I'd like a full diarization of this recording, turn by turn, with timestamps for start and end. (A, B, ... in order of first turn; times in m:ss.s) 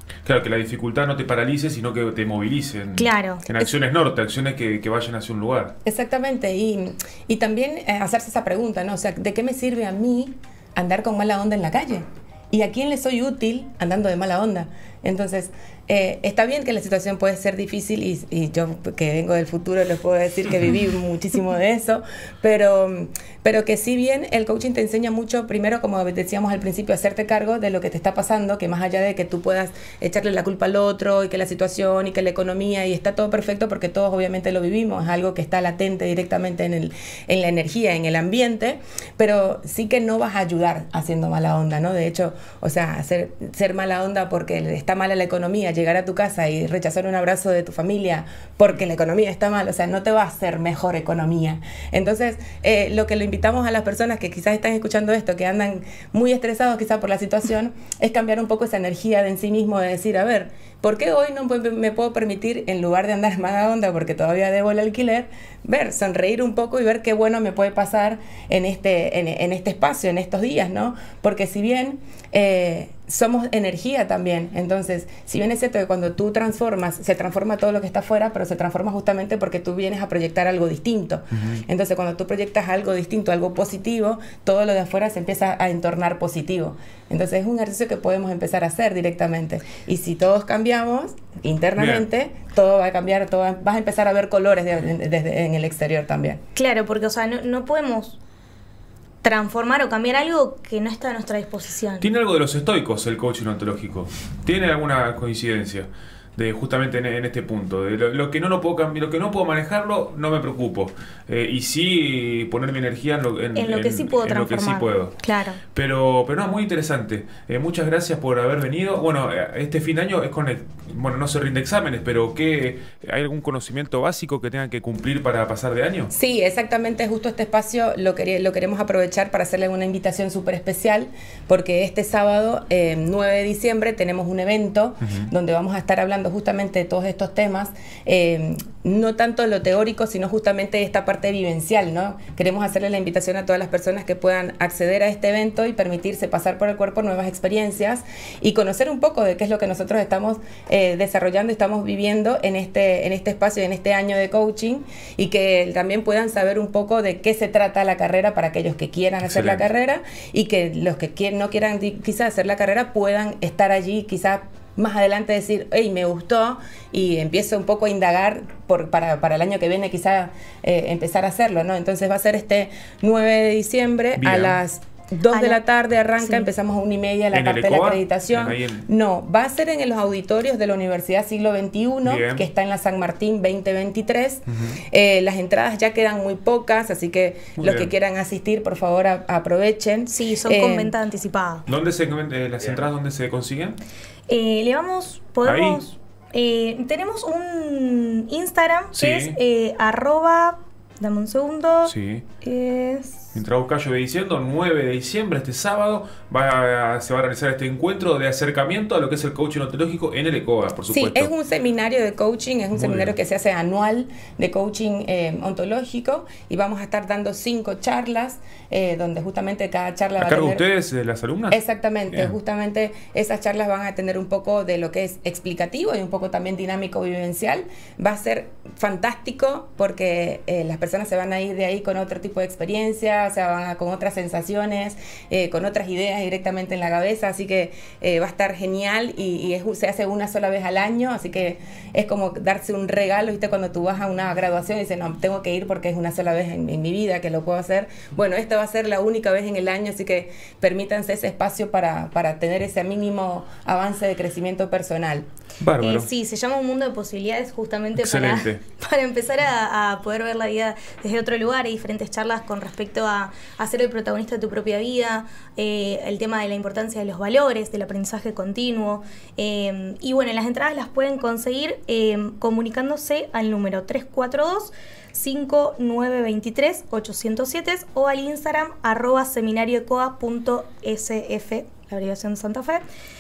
0:00.2-0:05.8 A
0:03.0-0:03.7 B
0:05.8-1:36.4 C
1:31.8-1:32.0 A
1:36.6-1:38.2 B
1:39.2-1:42.1 B
1:42.0-1:55.2 A
1:53.6-1:55.6 B
1:55.7-2:06.1 A
2:06.1-3:10.9 C
2:15.0-2:15.3 A
2:39.2-2:39.6 A
2:54.2-2:54.6 A
2:55.3-2:55.6 B
2:56.2-2:56.5 B
2:57.3-2:58.9 A
3:02.0-3:02.4 A
3:07.6-3:07.9 A
3:10.1-3:11.7 B
3:11.7-3:13.8 A
3:14.3-3:23.3 B
3:15.4-3:15.8 A
3:19.0-3:19.4 A
3:21.9-3:22.2 A
3:23.3-3:31.3 A
3:30.9-3:40.6 C
3:32.8-3:33.2 A
3:40.2-3:42.3 A
3:41.5-4:15.3 C
4:15.6-4:16.1 A
4:15.8-4:42.8 B
4:18.0-4:18.6 A